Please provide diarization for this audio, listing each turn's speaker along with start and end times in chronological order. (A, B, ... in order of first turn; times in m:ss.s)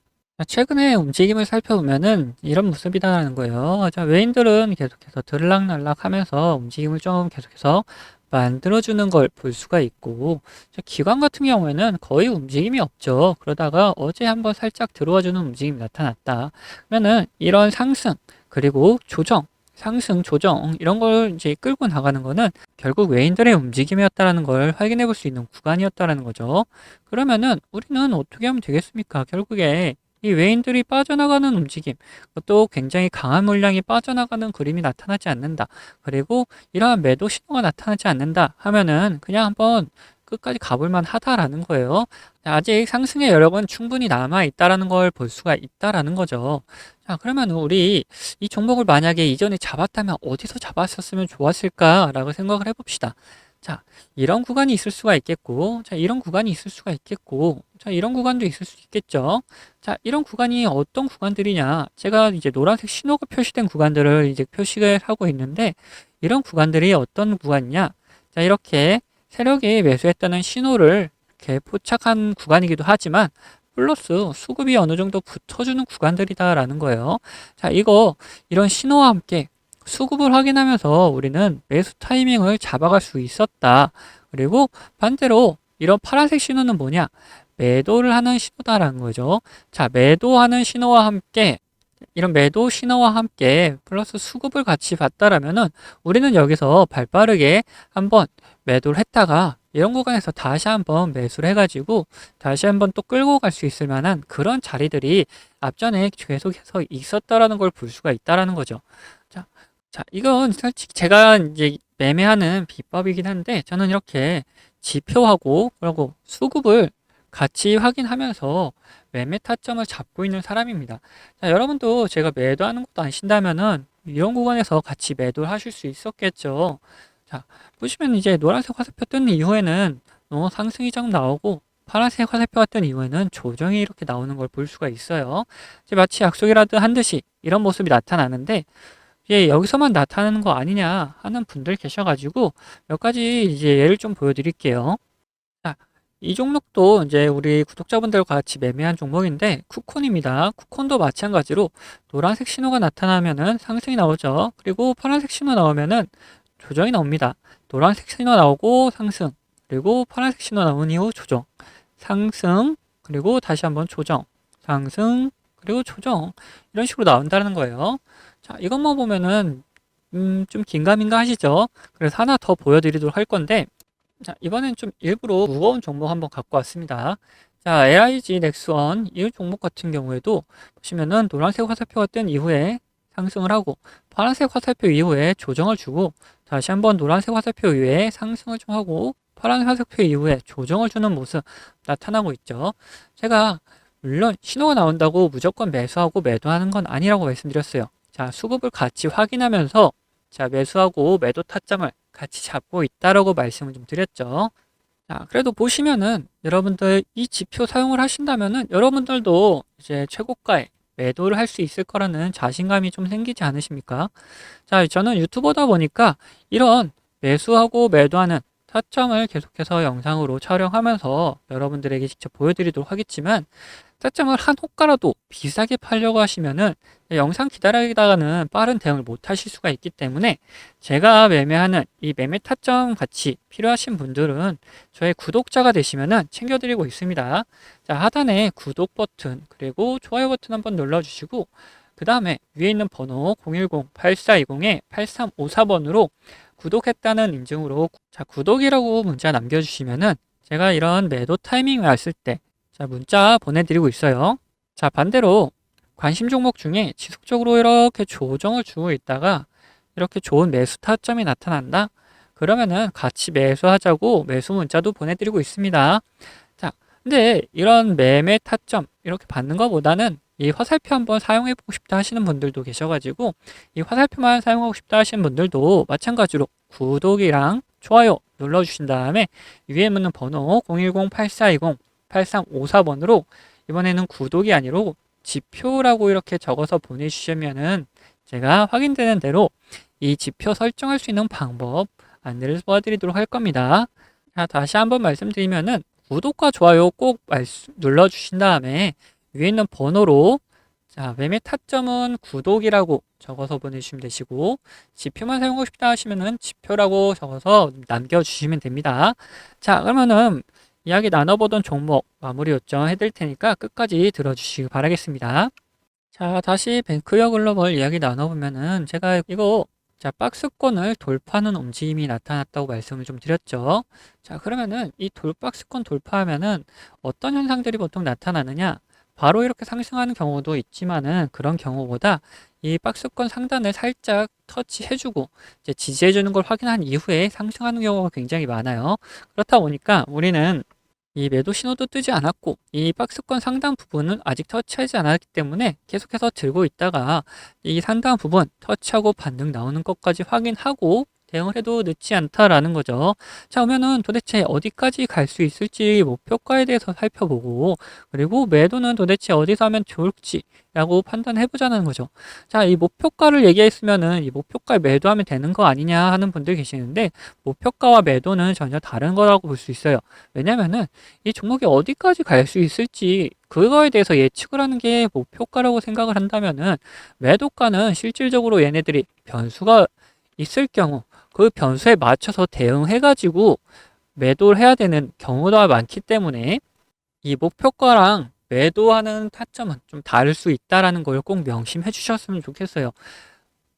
0:00.4-1:31.6 A
1:32.1-2:18.7 A
2:19.2-2:25.0 A
2:25.6-2:53.7 A
2:54.2-3:24.5 A
3:25.1-5:00.4 A
5:00.9-5:15.5 A
5:16.1-6:23.6 A
6:24.1-6:26.6 A
6:27.2-6:33.2 A